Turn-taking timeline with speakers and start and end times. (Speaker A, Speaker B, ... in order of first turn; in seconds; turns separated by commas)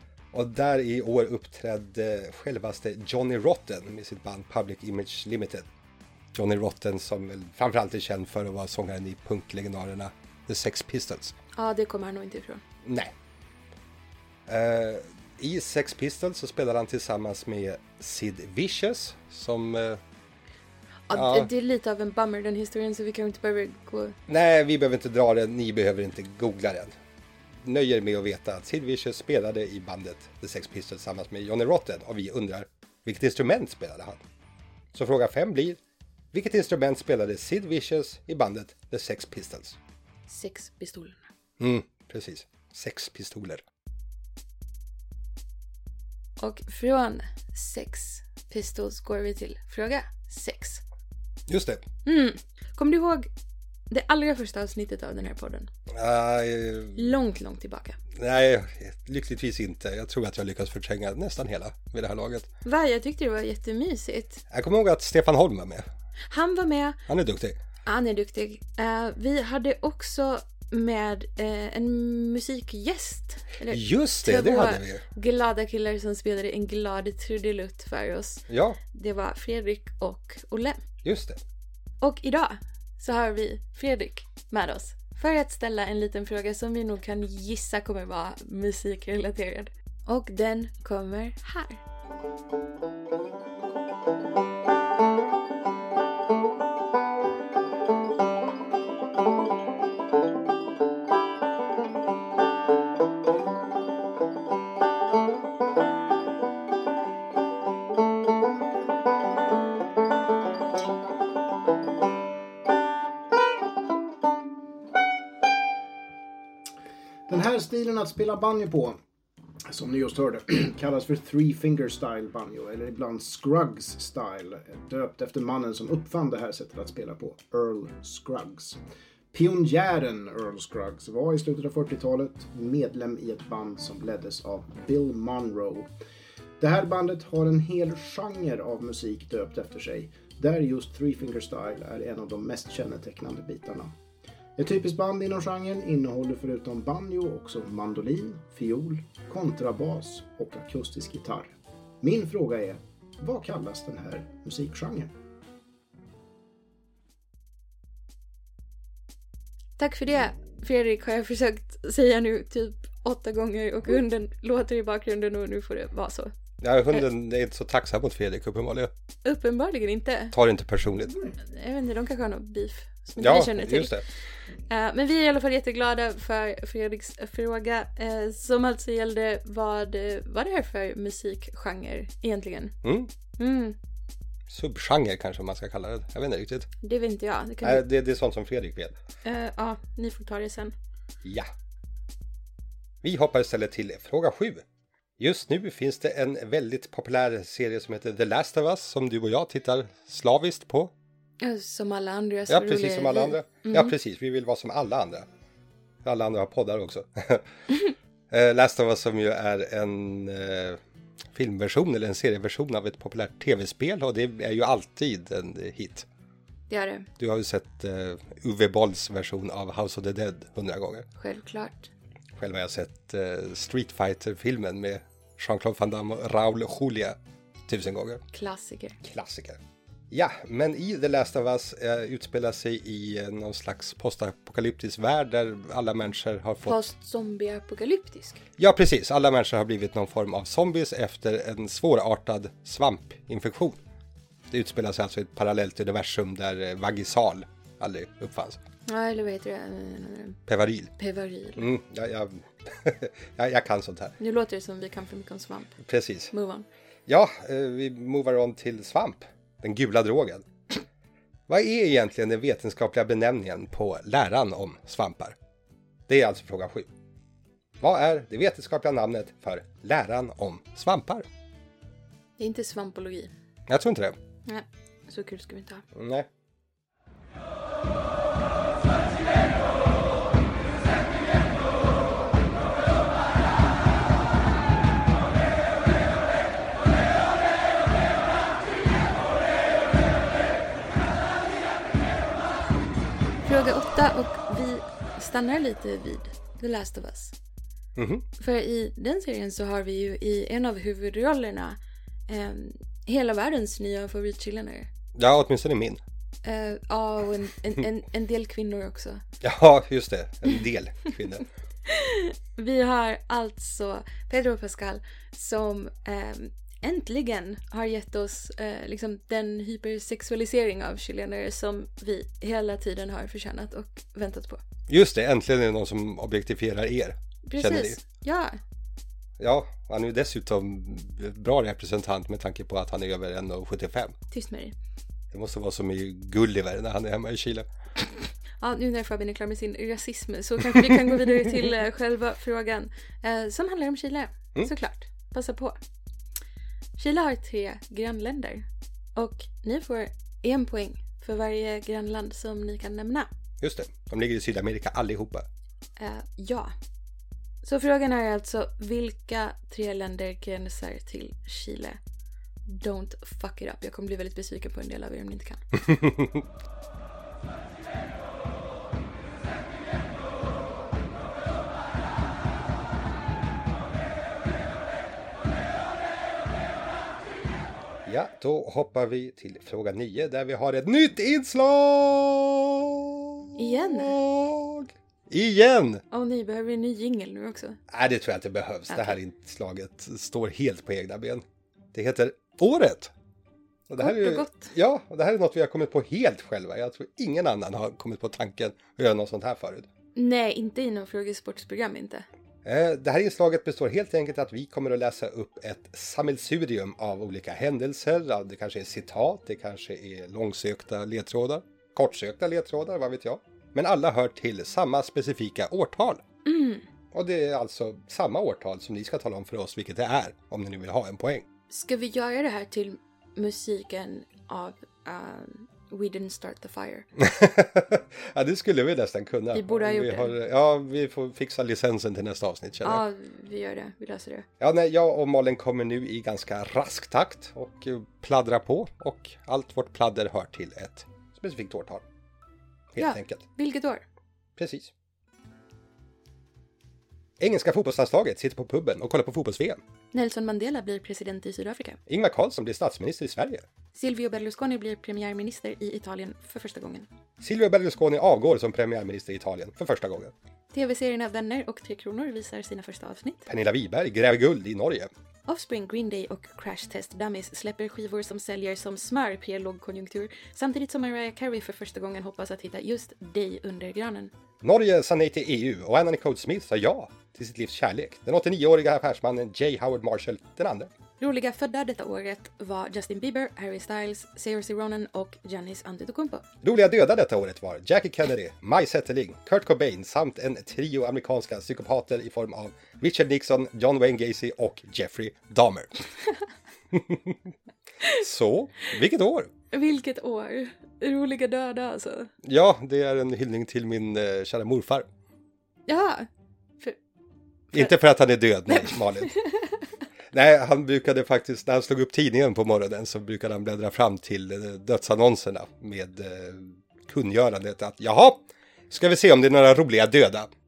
Speaker A: 0.3-5.7, Speaker A: 6.3-11.3, Speaker B: 11.6-12.6, Speaker A: 12.8-13.1, Speaker A: 14.5-20.0, Speaker B: 21.1-24.2, Speaker A: 21.1-21.5, Speaker A: 24.3-26.9, Speaker A: 27.6-34.2, Speaker A: 34.9-35.8, Speaker A: 36.3-39.8, Speaker B: 40.3-41.3, Speaker A: 41.6-43.6, Speaker B: 46.4-50.8, Speaker A: 51.5-51.9, Speaker B: 52.0-53.3, Speaker B: 53.9-55.7, Speaker A: 55.9-57.1, Speaker B: 57.0-58.0, Speaker A: 58.1-62.5, Speaker B: 62.6-64.4, Speaker A: 64.5-65.8, Speaker B: 66.3-67.0, Speaker A: 67.1-67.6, Speaker B: 67.8-80.8, Speaker A: 73.7-75.0, Speaker A: 78.5-78.8, Speaker A: 81.0-81.4, Speaker B: 82.0-91.8, Speaker C: 117.3-119.0, Speaker C: 119.7-128.8, Speaker C: 129.3-135.9, Speaker C: 136.6-143.9, Speaker C: 144.6-155.1, Speaker B: 159.8-166.3, Speaker A: 166.6-168.9, Speaker B: 169.2-170.3, Speaker A: 170.3-171.2, Speaker B: 171.4-174.0, Speaker A: 173.2-174.1, Speaker B: 174.7-182.8, Speaker A: 182.8-183.1, Speaker B: 183.4-183.8, Speaker A: 184.5-186.7, Speaker B: 186.8-187.8, Speaker A: 187.6-189.0, Speaker B: 189.2-190.7, Speaker A: 191.2-191.5, Speaker A: 193.0-194.6, Speaker A: 195.2-200.9, Speaker B: 201.4-203.9, Speaker A: 202.5-205.3, Speaker A: 206.0-207.4, Speaker A: 208.3-210.8, Speaker A: 211.3-216.1, Speaker B: 216.7-217.1, Speaker A: 217.2-221.1, Speaker B: 221.2-221.9, Speaker A: 222.4-228.2, Speaker B: 228.3-229.0, Speaker A: 229.0-229.6, Speaker A: 230.1-236.8, Speaker B: 236.7-238.4, Speaker A: 238.6-243.8, Speaker A: 244.5-248.6, Speaker B: 248.9-250.4, Speaker A: 250.5-250.9, Speaker B: 251.0-251.7, Speaker A: 251.6-254.2, Speaker B: 254.2-255.8, Speaker A: 255.8-256.3, Speaker B: 256.3-256.7, Speaker A: 257.1-260.5, Speaker A: 261.5-265.4, Speaker A: 266.1-266.9, Speaker A: 267.8-271.3, Speaker B: 272.4-273.3, Speaker A: 273.7-274.2, Speaker B: 274.5-275.8, Speaker A: 275.9-276.3, Speaker B: 293.4-297.4, Speaker A: 298.0-298.2, Speaker B: 298.4-304.9, Speaker A: 305.1-306.0, Speaker B: 306.4-309.2, Speaker A: 309.4-311.4, Speaker B: 311.9-324.6, Speaker A: 324.9-328.0, Speaker B: 327.5-328.6, Speaker A: 329.4-334.1, Speaker B: 334.3-334.7, Speaker A: 335.3-337.7, Speaker B: 338.6-345.8, Speaker A: 340.8-341.4, Speaker B: 347.0-353.3, Speaker A: 353.6-355.5, Speaker B: 356.0-356.7, Speaker B: 357.6-362.0, Speaker B: 362.7-365.6, Speaker A: 365.9-366.4, Speaker A: 378.1-386.0, Speaker B: 383.6-384.2, Speaker B: 386.1-387.8, Speaker A: 387.9-393.1, Speaker B: 388.9-389.2, Speaker A: 393.9-399.9, Speaker B: 394.0-394.7, Speaker B: 400.2-402.3, Speaker A: 402.6-416.2, Speaker B: 416.5-416.8, Speaker A: 417.1-421.4, Speaker B: 421.7-427.1, Speaker A: 427.2-433.0, Speaker B: 429.5-430.4, Speaker B: 432.8-434.5, Speaker A: 434.6-442.0, Speaker A: 442.9-443.4, Speaker B: 443.0-444.0, Speaker A: 444.6-444.9, Speaker A: 447.4-449.8, Speaker B: 450.1-452.0, Speaker A: 452.1-453.6, Speaker B: 453.9-457.1, Speaker A: 457.4-460.3, Speaker B: 460.7-463.5, Speaker A: 463.5-465.1, Speaker B: 465.5-474.3, Speaker A: 474.6-480.9, Speaker B: 481.2-486.5, Speaker A: 486.6-496.0, Speaker A: 496.9-497.4, Speaker A: 498.1-499.5, Speaker B: 499.7-502.3, Speaker A: 502.4-505.1, Speaker B: 505.9-506.3, Speaker A: 507.7-509.3, Speaker B: 508.7-509.7, Speaker A: 510.3-520.5